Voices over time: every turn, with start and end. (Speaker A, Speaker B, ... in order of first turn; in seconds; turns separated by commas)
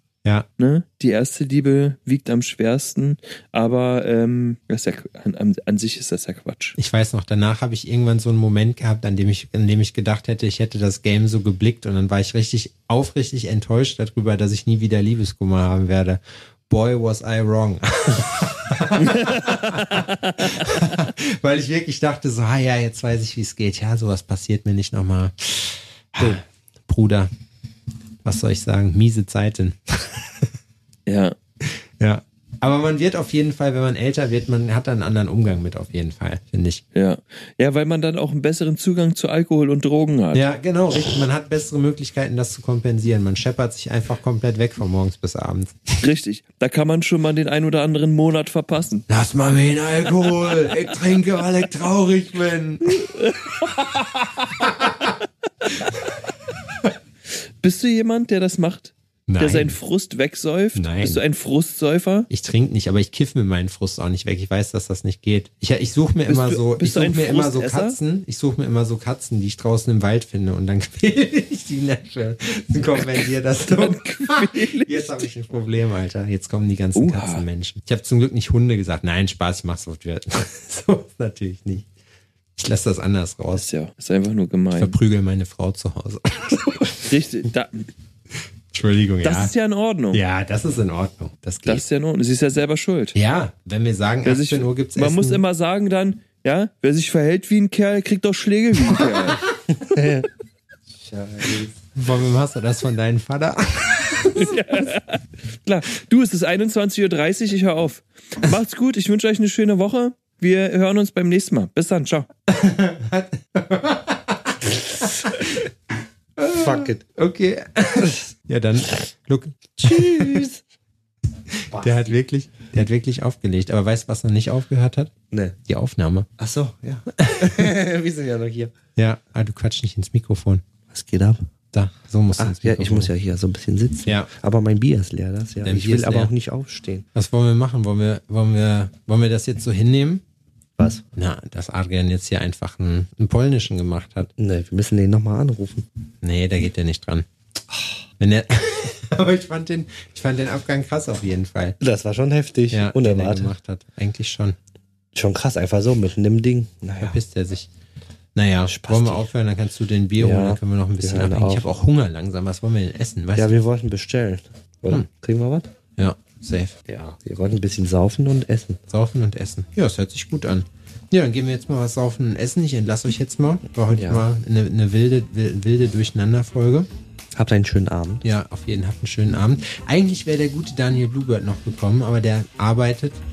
Speaker A: 0.6-6.8, Speaker B: 6.8-27.3, Speaker A: 18.9-20.7, Speaker B: 28.2-30.5, Speaker A: 31.1-31.4, Speaker B: 31.6-36.8, Speaker A: 36.9-40.5, Speaker B: 40.3-45.8, Speaker A: 46.0-49.1, Speaker B: 49.1-53.7, Speaker A: 52.9-55.1, Speaker B: 54.6-54.9, Speaker A: 57.6-62.3, Speaker B: 59.3-59.8, Speaker B: 60.8-61.2, Speaker B: 62.3-81.8, Speaker A: 66.3-68.0, Speaker A: 73.6-75.3, Speaker A: 77.0-77.4, Speaker B: 82.6-83.7, Speaker A: 83.5-85.0, Speaker B: 84.7-87.1, Speaker A: 87.1-87.9, Speaker B: 88.7-89.5, Speaker A: 89.2-90.2, Speaker B: 90.1-91.8, Speaker A: 91.7-93.1, Speaker B: 93.1-95.4, Speaker A: 94.2-99.5, Speaker B: 98.9-99.3, Speaker C: 99.9-100.3, Speaker C: 101.0-101.7, Speaker B: 101.9-104.6, Speaker A: 104.3-112.3, Speaker B: 112.5-115.7, Speaker B: 116.4-120.5, Speaker C: 116.5-117.0, Speaker C: 119.8-120.6, Speaker C: 121.7-122.1, Speaker B: 121.7-125.1, Speaker C: 125.3-125.5, Speaker B: 125.6-126.3, Speaker C: 126.4-128.7, Speaker B: 127.2-127.7, Speaker B: 128.9-130.6, Speaker C: 130.9-131.4, Speaker B: 131.7-133.1, Speaker C: 132.4-137.0, Speaker B: 134.1-134.3, Speaker B: 135.6-136.3, Speaker B: 137.1-140.2, Speaker C: 140.8-141.0, Speaker B: 141.2-144.3, Speaker C: 144.4-145.8, Speaker B: 146.2-147.2, Speaker B: 148.2-151.8, Speaker C: 151.8-153.5, Speaker B: 152.7-154.6, Speaker C: 155.1-157.2, Speaker B: 157.0-157.7, Speaker B: 158.3-163.5, Speaker C: 158.7-159.3, Speaker C: 160.2-161.7, Speaker C: 163.3-165.7, Speaker B: 165.9-166.8, Speaker C: 166.9-168.8, Speaker B: 168.9-176.9, Speaker C: 173.9-174.2, Speaker C: 177.3-178.2, Speaker B: 178.2-183.2